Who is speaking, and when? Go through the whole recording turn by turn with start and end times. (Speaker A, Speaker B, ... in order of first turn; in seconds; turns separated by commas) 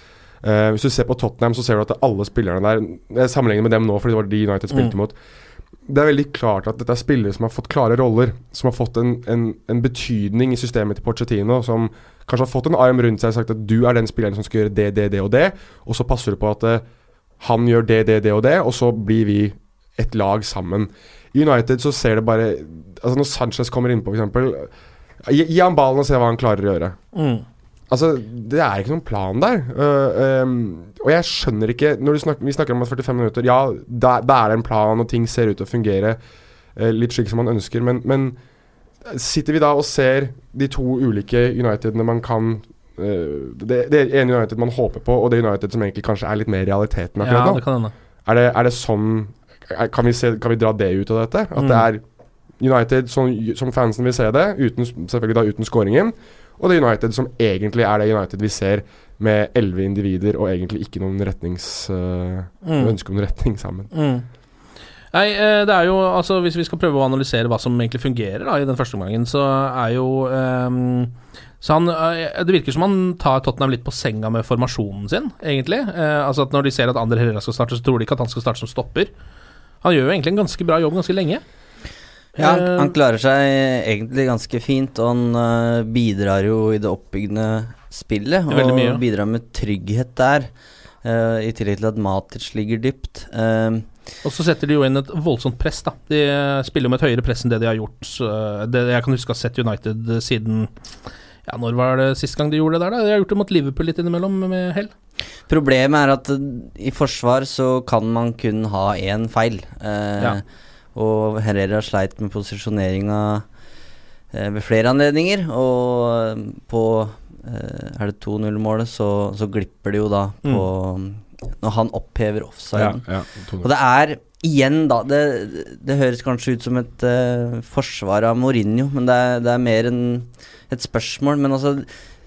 Speaker A: 0.4-5.2, Speaker A: 5.8-16.8, Speaker A: 17.4-24.7, Speaker A: 25.2-27.0, Speaker B: 27.1-27.4, Speaker A: 27.9-36.2, Speaker A: 36.8-38.4, Speaker A: 39.0-47.6, Speaker B: 47.2-47.9, Speaker A: 48.2-52.0, Speaker B: 51.5-51.9, Speaker A: 52.6-63.9, Speaker B: 62.6-62.9, Speaker B: 63.9-64.2, Speaker B: 65.1-79.1, Speaker B: 79.8-81.4, Speaker B: 82.4-82.9, Speaker C: 82.4-90.5, Speaker B: 88.5-89.0, Speaker C: 91.0-93.9, Speaker B: 94.2-100.7, Speaker B: 101.5-104.9, Speaker C: 105.5-110.4, Speaker C: 110.9-113.5, Speaker C: 114.3-123.0, Speaker A: 122.7-123.7, Speaker C: 123.6-131.9